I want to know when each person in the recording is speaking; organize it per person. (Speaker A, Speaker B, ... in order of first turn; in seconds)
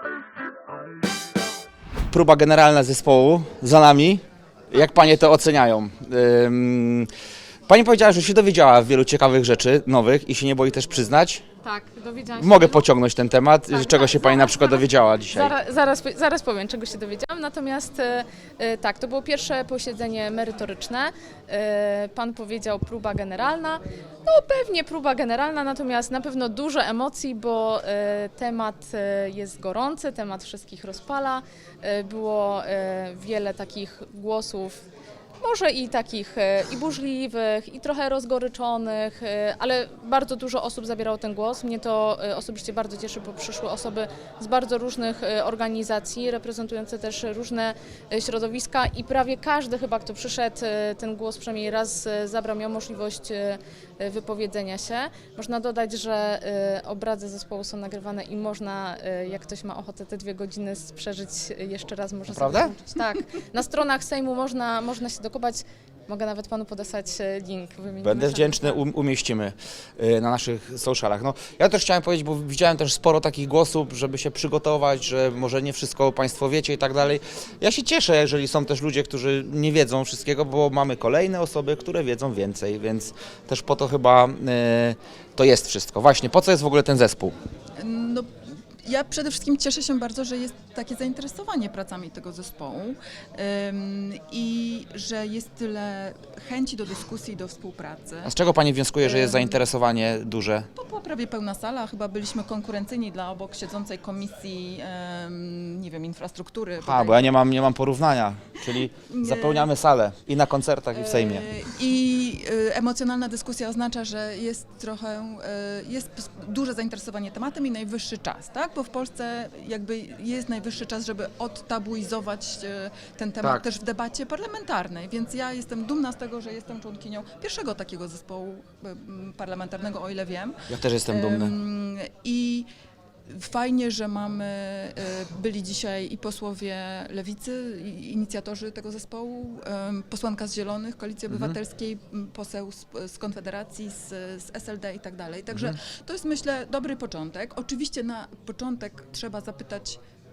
Speaker A: 2.1-7.1, 7.7-11.4, 12.4-15.5, 62.3-62.7, 68.0-87.3, 98.2-100.7, 106.8-111.5, 130.7-131.5, 141.3-141.6
Speaker B: 11.6-12.8, 13.7-34.8, 35.4-68.8
Speaker C: 87.8-98.3, 99.0-99.6, 100.8-107.3, 109.1-109.7, 110.9-132.7, 133.3-150.0